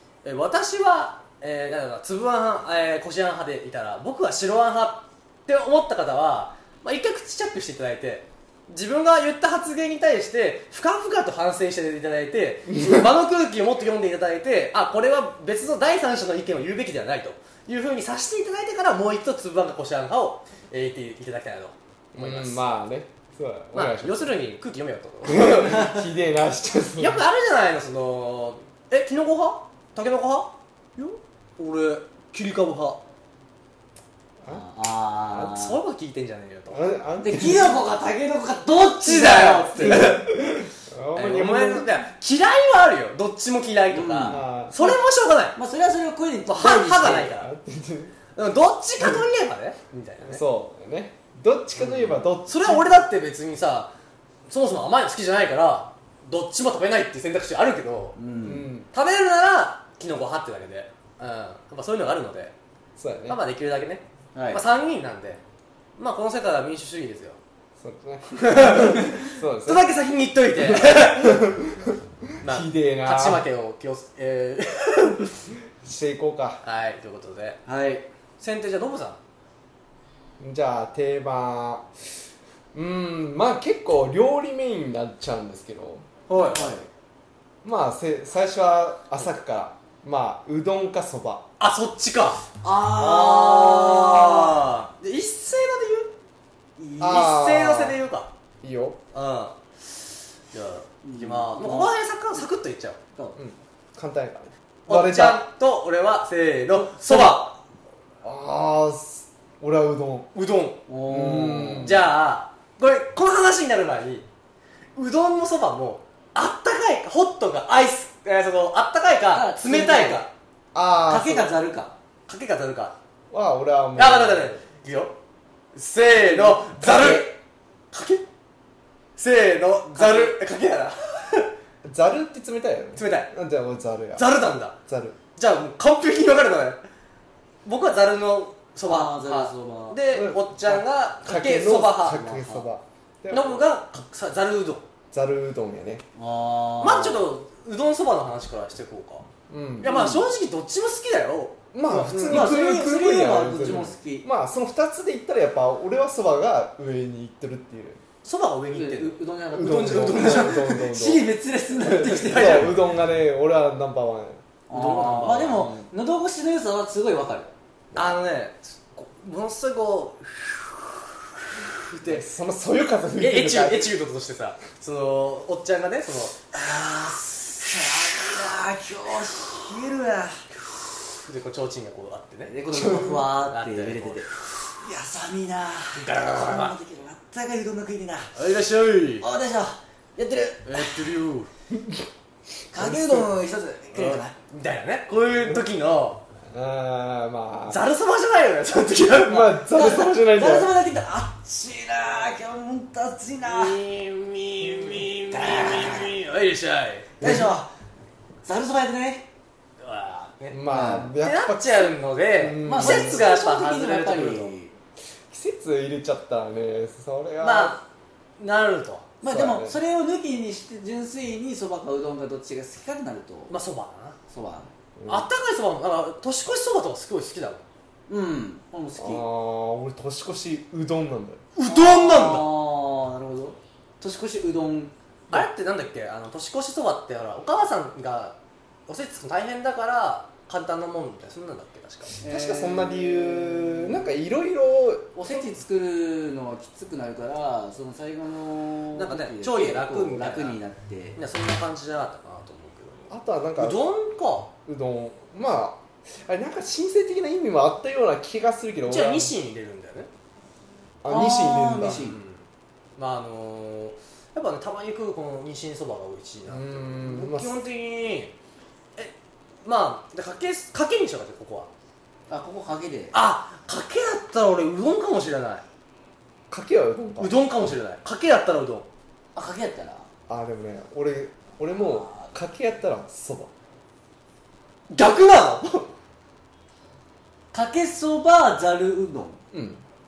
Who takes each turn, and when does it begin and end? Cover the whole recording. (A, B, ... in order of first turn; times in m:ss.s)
0:00.2-0:22.6 A
0:12.8-0:13.1 B
0:22.1-0:24.3 B
0:23.7-0:26.0 A
0:25.2-0:27.2 B
0:27.0-0:33.0 A
0:34.5-0:35.8 C
0:35.3-0:36.8 A
0:36.7-0:37.8 B
0:37.2-0:40.2 C
0:38.9-0:40.3 A
0:39.8-0:41.9 B
0:41.1-0:45.6 A
0:43.9-0:44.4 C
0:44.3-0:45.0 B
0:45.6-0:47.4 C
0:46.5-0:47.5 A
0:47.4-0:48.1 B
0:48.3-0:50.4 A
0:49.0-0:49.2 B
0:50.2-0:52.9 B
0:52.4-0:53.9 A
0:54.5-0:58.2 A
0:58.2-0:58.7 C
0:58.4-0:58.9 B
0:58.9-1:02.5 A
1:03.0-1:03.4 B
1:03.3-1:05.4 A
1:04.3-1:04.6 C
1:06.0-1:07.4 A
1:07.8-1:09.9 B
1:08.4-1:11.5 A
1:10.6-1:13.4 B
1:12.4-1:15.3 A
1:15.8-1:16.6 B
1:16.6-1:17.6 A
1:17.6-1:18.0 C
1:18.4-1:19.2 A
1:20.4-1:21.9 B
1:22.7-1:26.1 B
1:26.3-1:26.7 A
1:26.3-1:26.9 C
1:27.6-1:31.4 B
1:31.6-1:36.1 A
1:32.6-1:34.7 C
1:36.8-1:37.2 C
1:37.0-1:38.0 B
1:37.0-1:38.3 A
1:38.6-1:39.0 B
1:39.1-1:39.6 A
1:40.5-1:43.0 A
1:41.0-1:41.9 C
1:43.4-1:45.4 B
1:44.9-1:47.6 A
1:47.0-1:47.3 B
1:48.2-1:50.3 B
1:50.3-1:50.8 A
1:50.9-1:52.0 C
1:51.0-1:52.0 B
1:51.8-1:54.3 A
1:55.0-2:00.3 A
1:59.3-2:00.2 C
2:00.7-2:01.5 B
2:01.1-2:01.9 C
2:02.3-2:03.0 A
2:03.3-2:04.5 B
2:04.0-2:05.1 A
2:05.7-2:07.3 A
2:06.1-2:07.3 C
2:06.8-2:07.2 B
2:07.9-2:08.3 A
2:09.2-2:11.5 A
2:09.9-2:10.4 C
2:11.8-2:15.2 B
2:13.0-2:13.3 A
2:14.2-2:14.8 A
2:15.4-2:16.8 A
2:17.6-2:22.6 A
2:18.8-2:20.0 C
2:20.1-2:23.6 B
2:23.3-2:24.8 A
2:25.1-2:26.0 B
2:26.1-2:27.2 C
2:26.8-2:29.2 A
2:29.5-2:30.0 B
2:29.8-2:32.6 A
2:29.9-2:30.2 C
2:31.7-2:38.0 B
2:32.1-2:34.3 C
2:38.2-2:40.8 A
2:38.7-2:42.8 C
2:39.5-2:41.3 B
2:41.8-2:44.4 B
2:42.0-2:42.7 A
2:44.7-2:45.8 A
2:44.7-2:47.5 C
2:47.9-2:48.2 B
2:47.9-2:52.2 A
2:52.0-2:53.9 B
2:53.2-2:56.4 A
2:56.5-3:00.4 C
3:01.2-3:04.6 A
3:02.5-3:08.4 C
3:05.9-3:06.8 A
3:08.3-3:09.2 A
3:09.2-3:11.1 C
3:10.6-3:11.5 A
3:11.7-3:12.1 B
3:12.7-3:14.3 C
3:12.7-3:13.3 B
3:13.9-3:16.2 A
3:16.5-3:17.8 B
3:17.7-3:19.6 A
3:19.2-3:20.7 B
3:19.6-3:23.8 C
3:23.4-3:27.1 A
3:25.3-3:26.1 C
3:27.2-3:27.7 C
3:27.2-3:27.6 B
3:28.4-3:29.3 C
3:29.8-3:34.5 A
3:30.5-3:33.3 B
3:30.7-3:31.1 C
3:32.6-3:34.7 C
3:35.3-3:37.8 B
3:37.4-3:37.8 A
3:38.4-3:39.1 A
3:39.2-3:43.5 C
3:39.2-3:39.8 B
3:43.5-3:44.2 A
3:44.3-3:44.7 C
3:45.0-3:45.3 B
3:45.1-3:47.6 A
3:48.1-3:49.2 C
3:49.0-3:51.4 B
3:51.5-3:52.4 A
3:51.6-3:54.9 C
3:55.3-3:58.4 A
3:58.9-4:02.2 A
4:02.2-4:04.1 C
4:02.2-4:05.2 B
4:05.2-4:11.2 C
4:08.9-4:10.6 A
4:11.2-4:14.5 A
4:13.1-4:13.8 B
4:14.7-4:19.3 B
4:18.8-4:20.1 A
4:21.0-4:22.1 B
4:21.1-4:22.2 C
4:21.8-4:22.4 A
4:23.0-4:28.3 A
4:26.5-4:27.6 B
4:29.6-4:31.7 A
4:32.3-4:33.1 C
4:33.1-4:35.6 A
4:36.5-4:37.4 B
4:37.2-4:38.9 A
4:39.3-4:40.0 C
4:40.3-4:43.5 B
4:41.8-4:42.3 C
4:44.9-4:45.9 A
4:47.5-4:49.4 C
4:49.5-4:49.8 B